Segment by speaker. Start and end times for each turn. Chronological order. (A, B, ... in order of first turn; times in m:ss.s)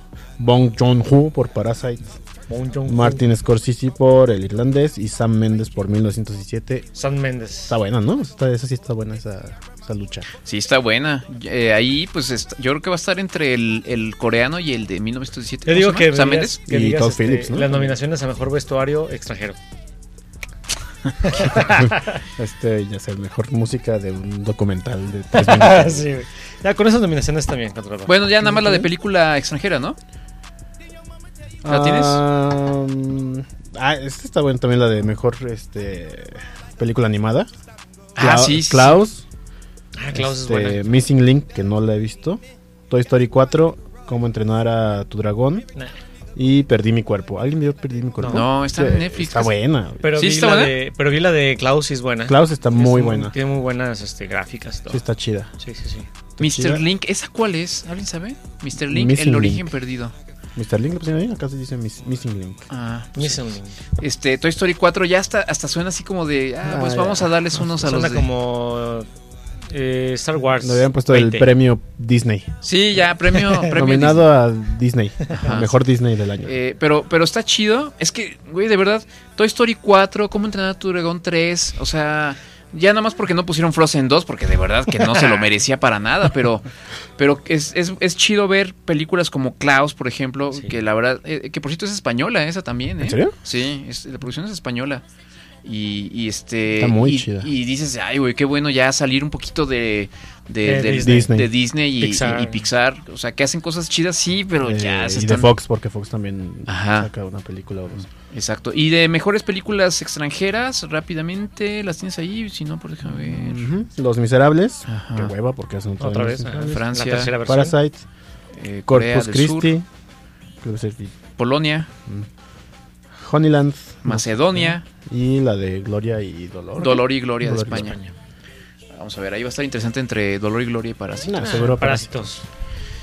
0:00.4-0:02.2 A
0:02.5-0:03.2 B
0:02.9-0:06.9 A
0:07.0-0:07.8 B
0:07.7-0:10.3 A
0:10.4-0:16.6 C
0:15.7-0:19.6 B
0:16.7-0:17.9 A
0:21.2-0:22.1 B
0:21.5-0:26.1 A
0:25.3-0:28.2 B
0:28.1-0:30.0 C
0:28.4-0:28.9 A
0:31.6-0:37.5 A
0:31.7-0:32.2 C
0:38.2-0:39.0 C
0:38.2-0:39.2 A
0:40.0-0:40.9 B
0:40.1-0:45.7 A
0:46.4-0:50.1 A
0:48.2-0:48.5 B
0:48.2-0:49.6 C
0:50.0-0:55.0 B
0:50.1-0:50.8 C
0:52.3-0:53.4 A
0:54.9-0:55.5 A
0:55.6-0:56.1 B
0:56.4-0:56.8 A
0:56.4-1:00.1 C
0:58.8-0:59.7 A
1:00.6-1:02.6 A
1:02.7-1:08.3 C
1:03.2-1:03.8 B
1:06.6-1:07.4 A
1:07.7-1:09.1 B
1:09.7-1:11.5 B
1:10.6-1:12.6 A
1:12.6-1:14.3 C
1:13.4-1:13.7 B
1:13.7-1:16.5 A
1:15.3-1:15.8 C
1:16.4-1:26.6 C
1:27.2-1:35.0 C
1:33.0-1:33.3 A
1:35.6-1:45.5 C
1:36.8-1:37.5 A
1:40.6-1:41.3 B
1:41.0-1:41.5 A
1:42.0-1:42.6 B
1:44.6-1:48.1 A
1:46.7-1:47.1 C
1:48.3-1:53.7 C
1:53.1-1:56.8 A
1:54.9-1:55.3 C
1:56.0-1:57.8 B
1:56.6-1:57.4 C
1:57.5-1:58.0 A
1:58.5-1:59.8 C
1:58.9-1:59.9 A
2:00.6-2:01.2 A
2:01.4-2:01.9 C
2:03.2-2:08.0 A
2:04.0-2:04.9 C
2:06.8-2:08.0 C
2:08.9-2:11.7 C
2:11.2-2:12.3 A
2:11.4-2:12.5 B